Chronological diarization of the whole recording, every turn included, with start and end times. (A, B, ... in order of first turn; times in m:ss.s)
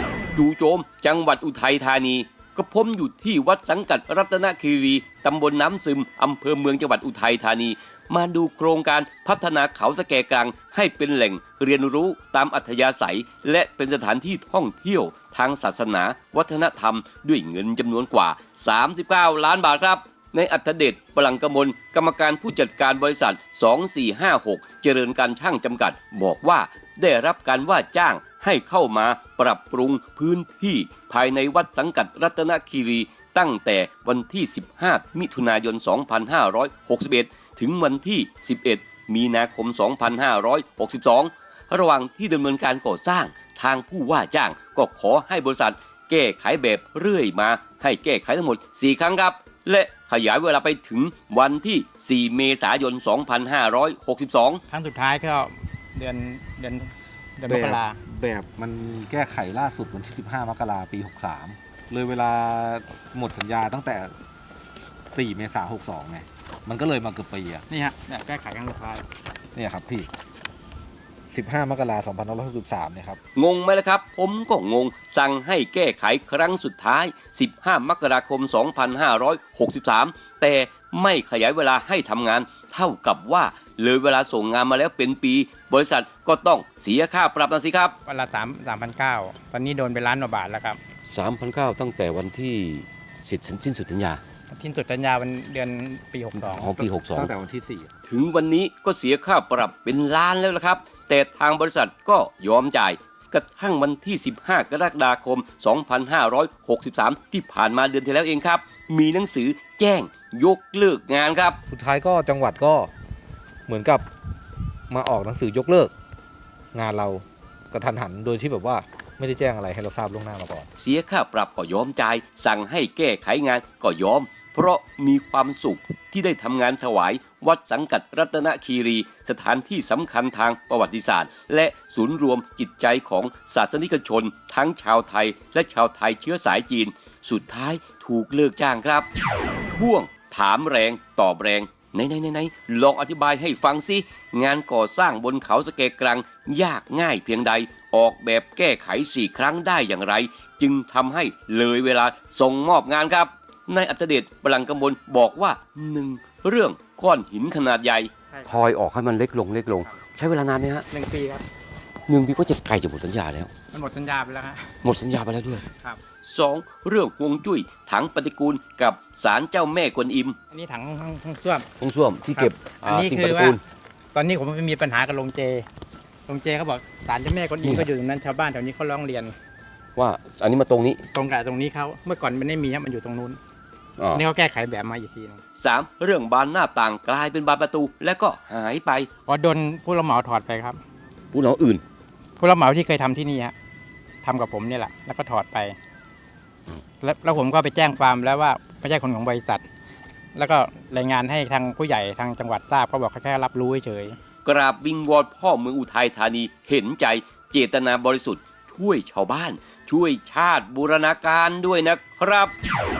0:00.3-0:54.6 A
0:54.7-0:58.0 B
0:57.5-1:04.1 C
1:05.1-1:07.6 C
1:07.7-1:09.0 B
1:09.5-1:10.1 C
1:11.3-1:13.2 C
1:13.4-1:27.9 A
1:28.0-1:30.8 B
1:31.1-1:34.2 A
1:34.5-1:36.7 B
1:36.3-1:37.3 A
1:36.8-1:37.9 C
1:38.1-1:51.6 A
1:51.7-1:52.9 C
1:53.7-1:54.0 C
1:54.9-1:55.9 C
1:56.7-2:00.7 C
2:00.8-2:19.1 A
2:19.7-2:40.8 A
2:38.3-2:38.7 B
2:40.9-2:41.4 B
2:42.1-2:43.5 A
2:43.7-2:44.8 B
2:44.8-2:45.6 A
2:45.6-2:46.0 B
2:46.2-2:50.4 A
2:50.5-2:51.6 B
2:51.8-2:53.6 A
2:52.3-2:53.6 B
2:54.1-2:55.6 B
2:56.3-2:59.3 B
3:00.0-3:01.0 A
3:01.1-3:03.4 B
3:04.0-3:04.2 A
3:04.1-3:05.4 B
3:05.5-3:09.1 A
3:09.3-3:10.8 B
3:11.3-3:11.8 A
3:12.4-3:13.5 B
3:14.2-3:15.8 B
3:17.0-3:19.6 B
3:20.3-3:24.2 B
3:24.4-3:32.5 A